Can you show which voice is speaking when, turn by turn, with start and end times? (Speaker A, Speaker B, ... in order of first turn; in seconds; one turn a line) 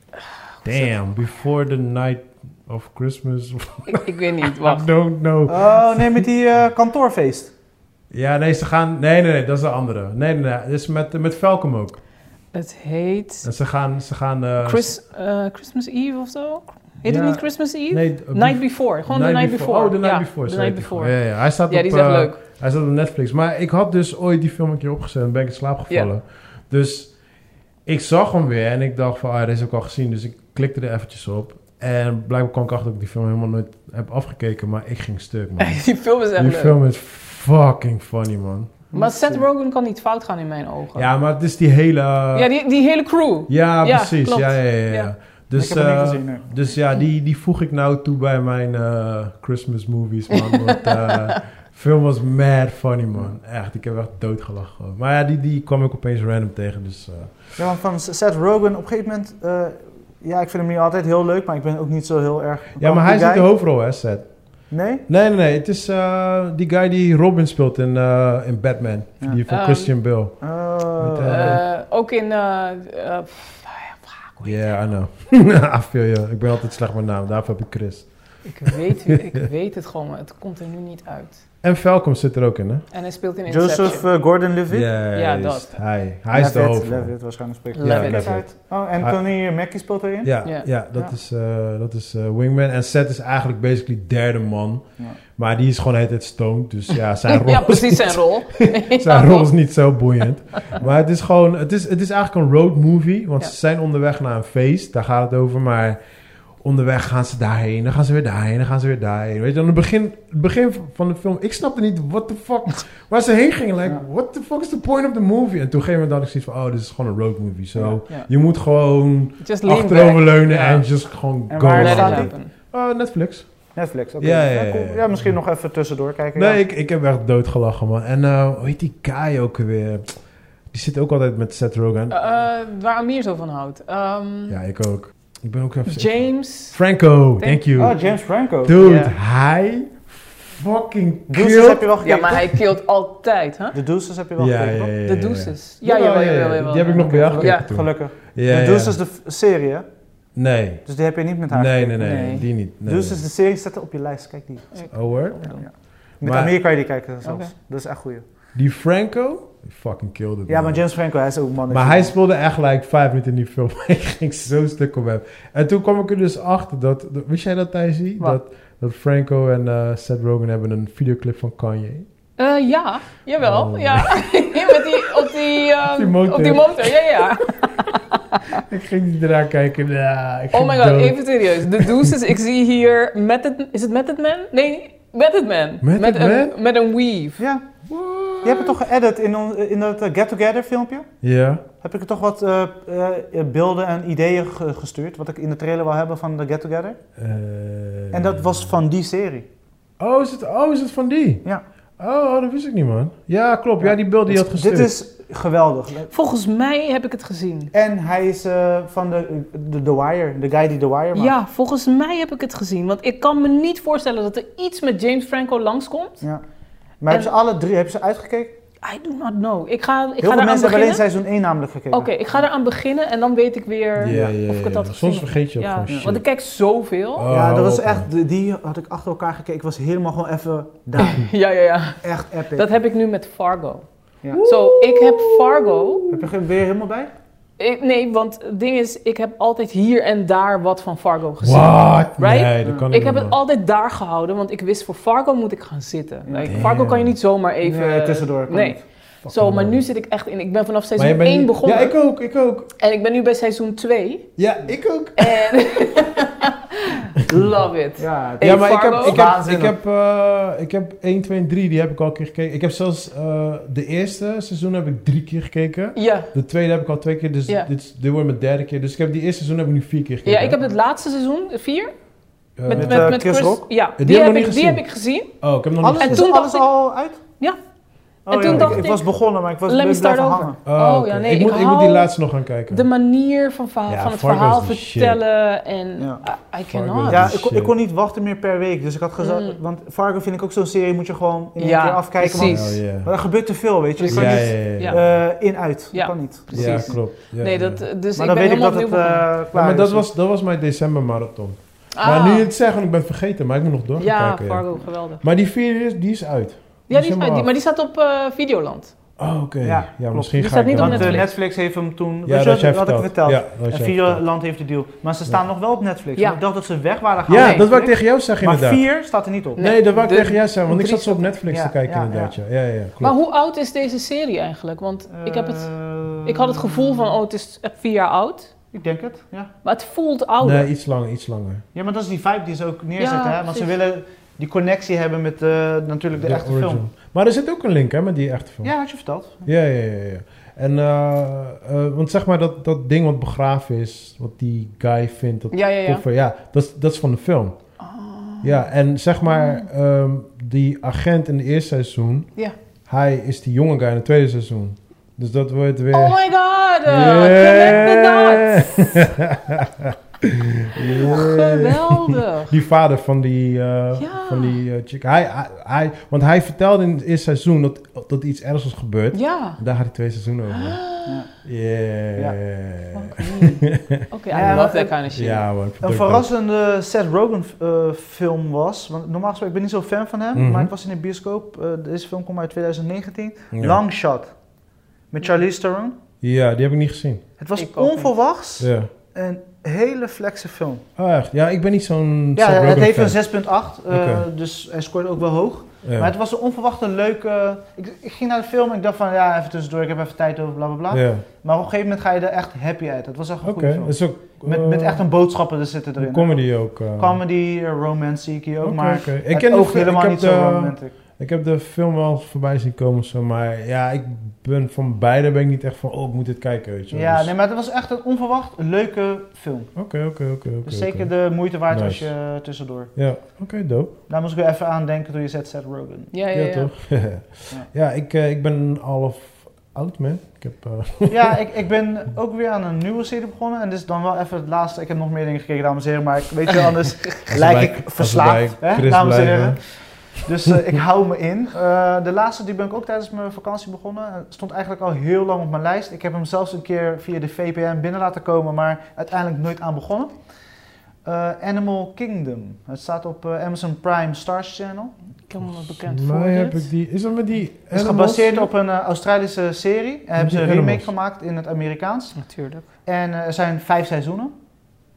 Speaker A: 0.6-6.3
Speaker B: 3.9-4.9
Speaker C: 5.5-7.5
Speaker A: 8.1-12.0
Speaker B: 12.5-13.5
Speaker A: 13.4-14.9
Speaker B: 14.6-22.4
Speaker A: 17.1-27.2
Speaker A: 27.9-38.9
Speaker B: 35.6-36.8
Speaker C: 38.9-39.4
Speaker B: 38.9-41.1
Speaker A: 41.0-42.5
Speaker B: 42.3-45.1
Speaker A: 43.5-57.5
Speaker C: 45.5-46.5
Speaker B: 50.3-51.4
Speaker C: 57.6-63.5
Speaker A: 62.8-71.6
Speaker C: 64.7-65.0
Speaker B: 69.5-70.0
Speaker C: 70.4-71.6
Speaker B: 71.2-74.7
Speaker A: 74.4-79.2
Speaker B: 78.5-81.4
Speaker A: 81.6-82.9
Speaker B: 82.9-84.1
Speaker C: 83.5-84.9
Speaker A: 84.7-87.2
Speaker B: 85.1-85.8
Speaker C: 86.3-90.4
Speaker B: 87.8-88.5
Speaker A: 87.8-88.5
Speaker A: 90.2-106.0
Speaker B: 97.3-99.5
Speaker A: 106.6-123.6
Speaker C: 117.8-118.0
Speaker B: 119.4-120.8
Speaker C: 121.5-122.3
Speaker B: 121.7-122.5
Speaker C: 123.8-126.6
Speaker A: 124.2-125.4
Speaker A: 126.3-132.2
Speaker B: 132.1-134.6
Speaker A: 134.5-138.0
Speaker B: 135.9-136.8
Speaker B: 137.4-138.1
Speaker C: 137.8-138.8
Speaker A: 138.6-141.9
Speaker B: 138.8-139.1
Speaker C: 141.3-142.6
Speaker B: 142.0-143.8
Speaker C: 143.7-144.9
Speaker A: 144.4-149.0
Speaker B: 145.1-147.7
Speaker C: 147.0-149.9
Speaker A: 150.3-150.9
Speaker C: 150.8-154.9
Speaker A: 151.5-153.2
Speaker B: 152.0-152.5
Speaker B: 154.7-155.6
Speaker A: 154.9-156.5
Speaker C: 155.4-158.2
Speaker B: 157.2-157.5
Speaker A: 158.5-160.9
Speaker C: 160.5-162.2
Speaker A: 161.7-172.1
Speaker B: 172.4-178.6
Speaker A: 173.4-174.1
Speaker A: 174.9-175.3
Speaker A: 175.8-177.2
Speaker A: 178.5-182.2
Speaker B: 180.5-187.4
Speaker A: 185.8-186.6
Speaker C: 187.4-187.6
Speaker A: 187.9-188.8
Speaker C: 188.4-191.1
Speaker A: 191.2-191.6
Speaker C: 191.8-197.0
Speaker A: 197.2-198.7
Speaker C: 198.1-199.5
Speaker A: 200.0-201.4
Speaker A: 202.0-204.9
Speaker C: 203.8-206.1
Speaker B: 206.1-207.7
Speaker C: 207.7-211.3
Speaker B: 211.2-216.2
Speaker C: 217.0-218.6
Speaker B: 218.8-221.0
Speaker C: 220.2-222.4
Speaker B: 221.9-227.3
Speaker A: 224.0-226.2
Speaker C: 224.0-224.4
Speaker A: 227.2-228.1
Speaker C: 227.3-231.3
Speaker B: 231.0-236.1
Speaker C: 232.0-232.7
Speaker C: 234.2-234.5
Speaker A: 234.4-236.0
Speaker C: 236.1-237.1
Speaker B: 237.6-252.0
Speaker A: 241.4-243.3
Speaker C: 246.3-246.7
Speaker A: 246.4-247.2
Speaker C: 247.6-248.8
Speaker A: 249.2-249.8
Speaker A: 251.0-252.7
Speaker B: 252.8-254.3
Speaker A: 254.4-255.6
Speaker B: 255.2-259.2
Speaker C: 258.0-259.8
Speaker A: 258.4-270.6
Speaker B: 266.0-266.3
Speaker B: 270.2-271.9
Speaker A: 272.6-273.2
Speaker B: 272.6-275.4
Speaker C: 272.7-273.7
Speaker A: 274.0-274.8
Speaker A: 275.4-276.3
Speaker C: 275.8-277.2
Speaker B: 276.0-277.6
Speaker C: 278.3-280.6
Speaker B: 278.3-282.1
Speaker A: 278.4-278.9
Speaker A: 280.7-282.9
Speaker B: 282.7-287.4
Speaker A: 283.9-285.2
Speaker C: 286.0-286.2
Speaker A: 286.6-287.7
Speaker C: 287.1-297.0
Speaker B: 289.2-289.6
Speaker B: 291.6-292.7
Speaker A: 292.2-293.1
Speaker B: 294.0-295.2
Speaker A: 294.1-295.1
Speaker B: 295.9-299.3
Speaker A: 296.5-297.9
Speaker C: 298.2-300.1
Speaker A: 299.5-307.5
Speaker B: 302.0-302.5
Speaker B: 304.0-305.2
Speaker B: 306.9-308.9
Speaker A: 309.2-311.2
Speaker C: 309.6-319.6
Speaker B: 310.4-311.3
Speaker A: 312.3-314.2
Speaker B: 317.3-317.6
Speaker A: 317.3-318.8
Speaker A: 319.6-323.2
Speaker B: 319.6-321.3
Speaker C: 321.5-322.4
Speaker B: 323.0-325.7
Speaker C: 325.1-327.1
Speaker B: 326.2-328.5
Speaker C: 328.7-329.5
Speaker B: 329.6-330.7
Speaker A: 330.4-331.6
Speaker C: 331.7-336.9
Speaker B: 333.0-333.7
Speaker A: 336.2-338.8
Speaker C: 338.6-339.5
Speaker A: 339.4-347.6
Speaker B: 345.5-346.0
Speaker B: 347.8-348.6
Speaker A: 348.4-352.3
Speaker B: 349.2-349.7
Speaker A: 352.9-356.2
Speaker B: 355.9-359.0
Speaker A: 356.9-370.8
Speaker B: 360.8-362.6
Speaker B: 364.0-364.6
Speaker B: 369.1-369.6
Speaker B: 370.5-371.2
Speaker A: 371.4-376.3
Speaker B: 372.9-375.4
Speaker C: 374.3-375.0
Speaker C: 375.8-384.3
Speaker A: 380.4-380.7
Speaker A: 383.5-383.8
Speaker C: 385.1-385.9
Speaker A: 386.2-387.2
Speaker C: 387.4-390.8
Speaker B: 387.6-388.1
Speaker A: 388.6-388.9
Speaker A: 391.0-393.2
Speaker C: 392.4-410.9
Speaker A: 393.9-394.3
Speaker A: 395.8-396.1
Speaker A: 400.9-401.2
Speaker A: 403.4-405.0
Speaker A: 406.0-407.2
Speaker A: 408.6-417.3
Speaker C: 416.9-419.8
Speaker A: 419.8-421.1
Speaker C: 420.6-422.9
Speaker A: 421.7-422.1
Speaker A: 422.9-423.9
Speaker C: 424.1-426.1
Speaker B: 426.1-426.7
Speaker A: 426.3-431.4
Speaker C: 431.1-450.1
Speaker A: 437.3-439.9
Speaker C: 451.1-454.9
Speaker B: 455.3-456.7
Speaker A: 455.4-458.5
Speaker C: 457.7-462.2
Speaker A: 460.2-460.9
Speaker B: 462.2-462.7
Speaker C: 462.9-464.3